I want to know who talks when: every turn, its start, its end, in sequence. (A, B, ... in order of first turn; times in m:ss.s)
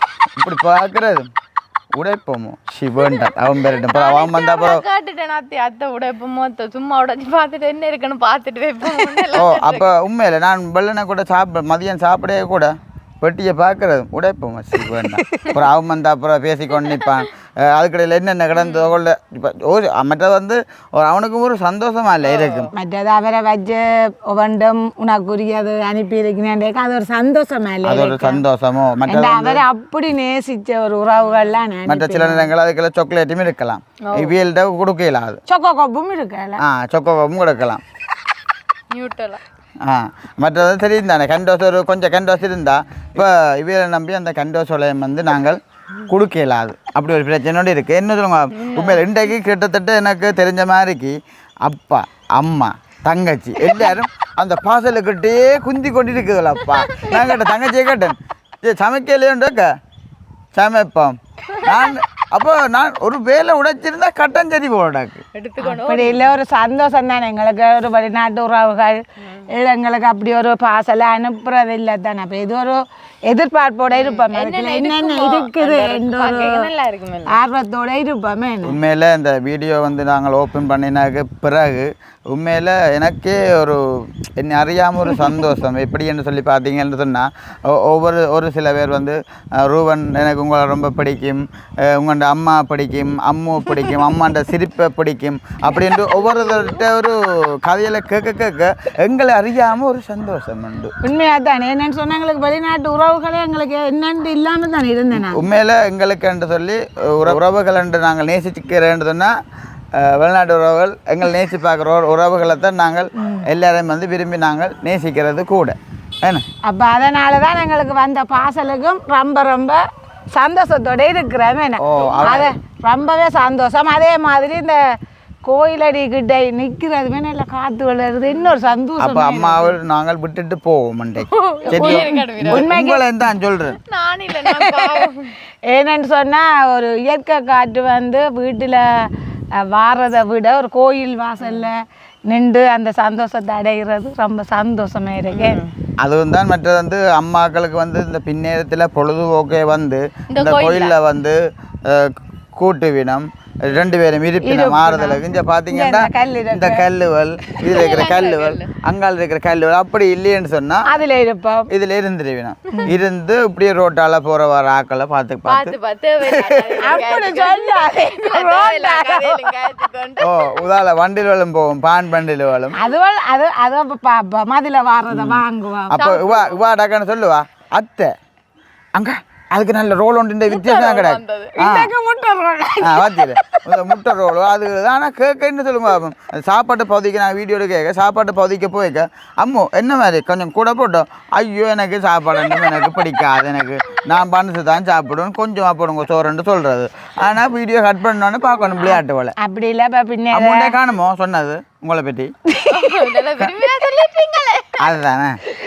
0:00.4-0:01.3 A
0:02.0-0:04.8 A
0:03.8-0:09.9 B
0:09.3-0:22.7 A
0:15.1-0:15.5 C
0:18.5-0:18.9 B
0:22.2-0:22.7 B
0:22.7-0:28.4 C
0:27.8-0:29.6 A
0:29.1-0:32.5 C
0:31.9-0:35.4 A
0:34.0-0:34.3 B
0:35.5-0:36.6 C
0:36.6-0:37.8 A
0:38.9-0:39.4 B
0:39.8-0:59.8 A
0:48.5-0:49.0 B
0:56.8-0:57.3 B
1:00.5-1:05.2 A
1:05.3-1:06.2 B
1:05.6-1:16.7 C
1:13.9-1:17.4 B
1:17.3-1:18.8 C
1:18.6-1:40.9 A
1:41.0-1:45.4 C
1:45.1-1:49.3 A
1:49.9-1:56.4 A
1:53.2-1:53.4 C
1:56.6-1:59.8 C
2:00.3-2:04.8 C
2:01.8-2:02.5 A
2:05.4-2:09.8 C
2:09.0-2:13.8 A
2:11.3-2:12.8 B
2:11.7-2:13.0 C
2:13.9-2:15.3 B
2:14.4-2:15.1 C
2:15.7-2:19.1 C
2:19.6-2:25.6 C
2:21.4-2:21.7 B
2:25.3-2:25.7 B
2:26.0-2:40.9 A
2:30.3-2:30.9 B
2:34.4-2:36.9 C
2:37.7-2:38.7 B
2:40.9-2:41.7 C
2:41.7-2:47.0 A
2:42.7-2:43.0 C
2:45.5-2:50.6 B
2:46.8-2:49.6 C
2:50.2-2:52.8 A
2:52.8-2:56.0 C
2:55.1-2:58.1 A
2:55.9-2:56.6 B
2:59.0-3:01.9 A
3:00.5-3:01.5 B
3:01.6-3:03.9 C
3:02.8-3:19.4 A
3:18.8-3:20.7 C
3:20.3-3:22.3 A
3:22.5-3:23.2 C
3:22.7-3:24.9 B
3:24.8-3:25.4 A